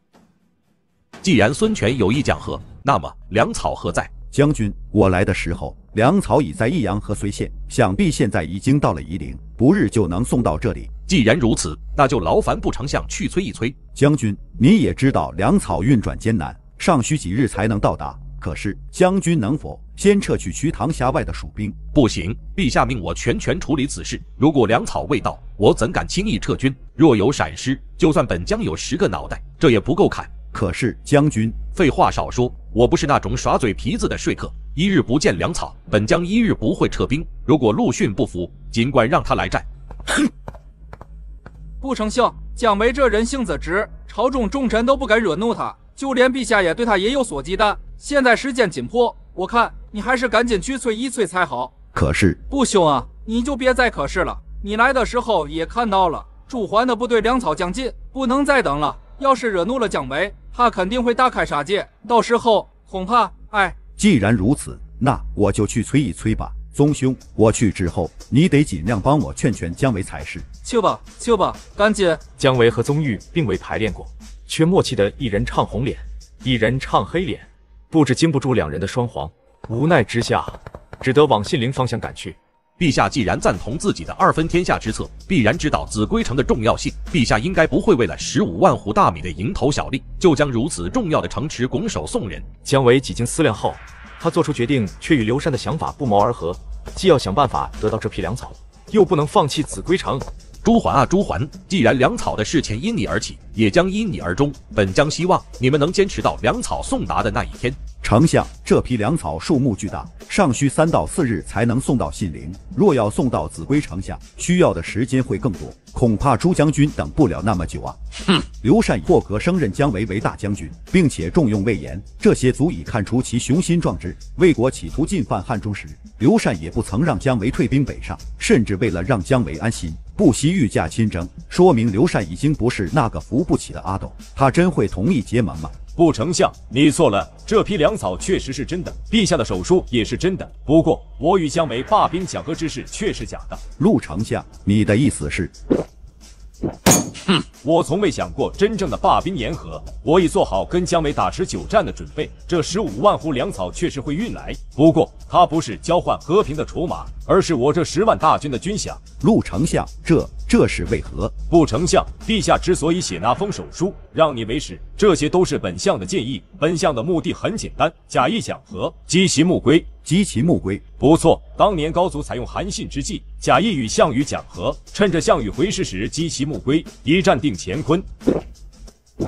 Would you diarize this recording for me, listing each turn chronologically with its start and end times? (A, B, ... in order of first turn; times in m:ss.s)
0:01.2-0:04.1 A
0:04.3-0:10.9 B
0:11.1-0:13.8 A
0:13.9-0:21.8 B
0:21.9-0:30.3 A
0:30.5-0:31.6 B
0:31.7-0:39.6 A
0:41.8-0:51.8 C
0:51.9-0:52.4 B
0:52.5-1:03.8 C
1:04.0-1:10.4 B
1:10.6-1:12.2 C
1:12.4-1:22.4 D
1:22.8-1:32.4 A
1:32.6-1:40.2 D
1:40.6-1:47.8 A
1:48.0-1:58.0 B
1:58.6-2:15.8 B
2:16.0-2:23.6 E
2:23.8-2:25.5 B
2:27.6-2:39.0 E
2:39.2-2:41.3 B
2:41.5-2:49.9 E
2:50.0-2:50.8 B
2:51.0-2:58.0 E